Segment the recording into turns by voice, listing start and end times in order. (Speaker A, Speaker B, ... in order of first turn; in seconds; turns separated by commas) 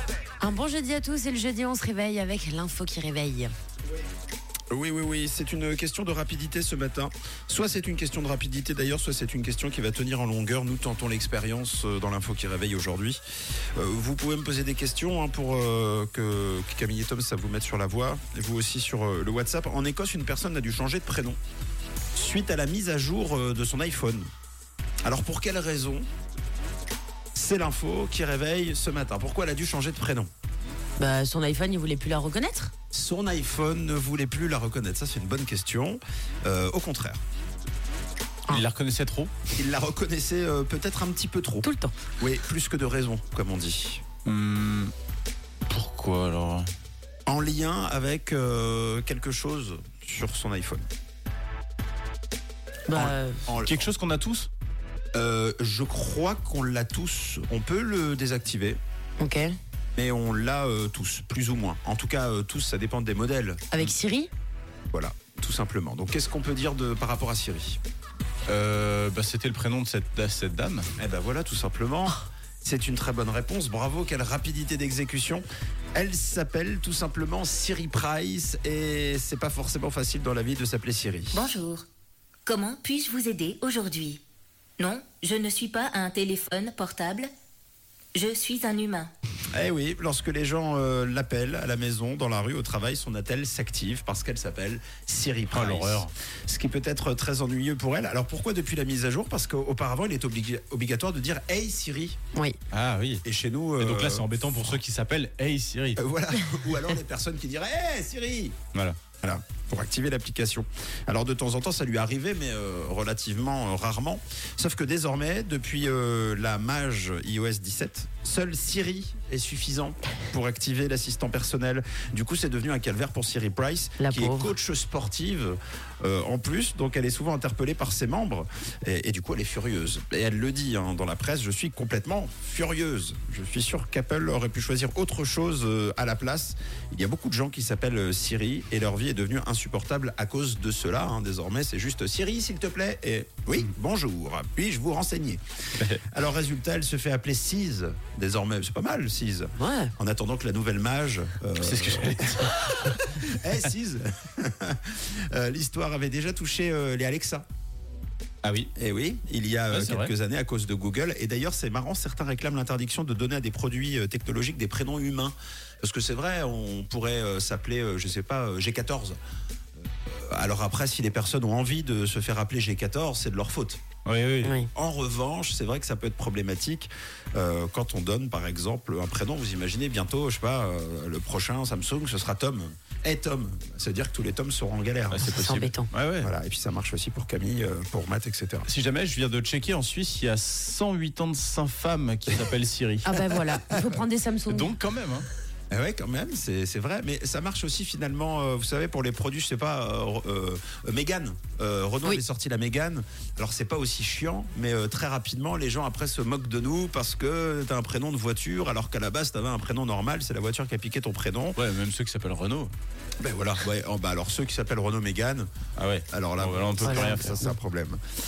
Speaker A: 0.4-3.5, Speaker B: 4.7-13.2, Speaker B: 13.8-21.4, Speaker B: 22.1-24.3, Speaker B: 25.1-26.1, Speaker B: 27.4-30.3, Speaker A: 31.0-32.7, Speaker B: 32.9-37.2, Speaker C: 38.5-39.3, Speaker B: 39.6-41.7, Speaker A: 41.6-41.9, Speaker B: 42.2-44.0, Speaker C: 44.3-44.9, Speaker C: 45.7-46.7, Speaker B: 47.3-50.9, Speaker A: 52.9-53.4, Speaker B: 52.9-53.9, Speaker C: 53.6-54.5, Speaker B: 55.1-58.8, Speaker A: 59.2-59.5, Speaker B: 60.0-63.6, Speaker A: 63.7-64.3, Speaker B: 64.9-67.8, Speaker C: 68.5-70.9, Speaker B: 71.0-81.4, Speaker D: 81.3-81.8, Speaker D: 82.5-84.2, Speaker D: 84.8-87.3, Speaker D: 88.2-89.1, Speaker B: 89.5-102.2, Speaker C: 95.5-96.1, Speaker C: 102.7-103.2, Speaker B: 103.2-104.3, Speaker C: 103.8-106.0, Speaker B: 106.0-108.6, Speaker B: 109.2-145.4, Speaker A: 124.0-124.5, Speaker B: 146.1-157.5, Speaker A: 149.6-149.9, Speaker C: 151.6-152.9, Speaker C: 158.4-158.7, Speaker B: 158.8-169.2, Speaker C: 159.7-160.1, Speaker B: 170.1-173.8, Speaker C: 174.1-174.6, Speaker A: 174.4-174.7, Speaker B: 174.7-185.5, Speaker C: 185.1-186.3, Speaker A: 185.2-185.9, Speaker B: 186.2-188.7, Speaker C: 188.6-193.1, Speaker A: 193.1-194.7, Speaker C: 194.5-195.3, Speaker B: 195.7-211.6, Speaker C: 211.6-212.7, Speaker B: 213.2-215.5, Speaker C: 215.8-217.4, Speaker B: 216.1-218.0, Speaker A: 216.8-217.5